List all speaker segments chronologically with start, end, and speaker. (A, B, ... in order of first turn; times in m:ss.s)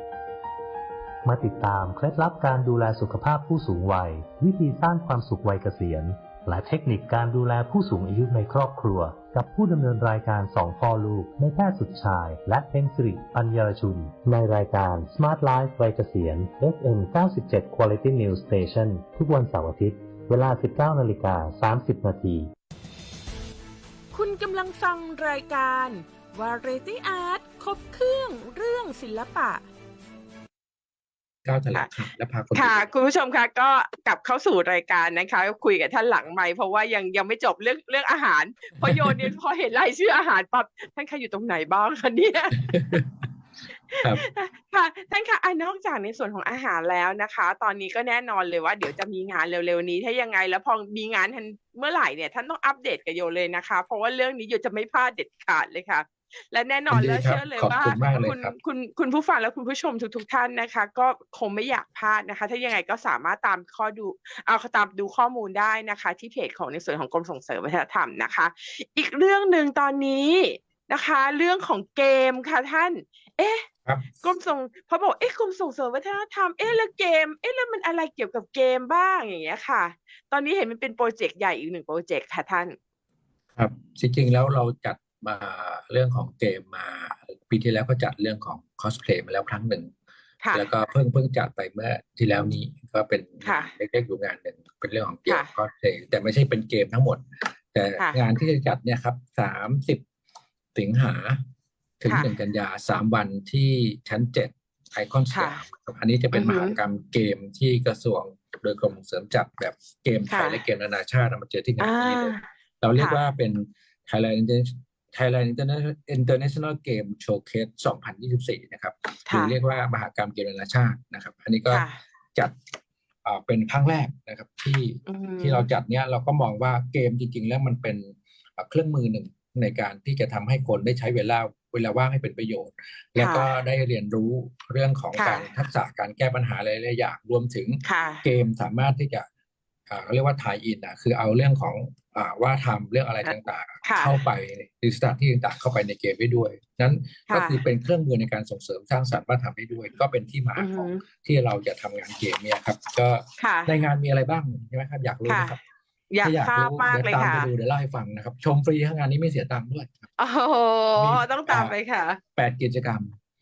0:01.2-0:22.5 A
0:24.1-0:29.6 B
0:31.4-0:32.9 C
0:32.6-0:43.0 B
0:38.9-0:39.3 C
0:42.7-0:43.0 C
0:43.9-1:13.7 B
0:56.9-0:58.6 C
1:14.2-1:22.8 B
1:23.6-1:29.9 C
1:30.5-1:40.0 C
1:33.4-1:33.7 B
1:40.8-1:41.4 C
1:42.0-2:02.6 C
1:45.3-1:45.6 B
1:46.3-1:46.8 B
1:50.3-1:50.6 B
1:51.8-1:52.4 B
1:59.3-1:59.5 B
2:01.7-2:02.0 B
2:03.2-2:19.3 C
2:05.1-2:05.7 B
2:13.2-2:13.5 B
2:15.2-2:15.5 B
2:17.8-2:18.2 B
2:19.9-2:35.6 C
2:23.8-2:24.1 B
2:27.3-2:27.6 B
2:30.6-2:31.0 B
2:33.4-2:33.7 B
2:35.3-2:35.6 B
2:36.1-2:37.5 B
2:36.2-2:40.1 C
2:40.2-2:42.2 B
2:41.0-2:41.8 C
2:42.4-2:43.2 C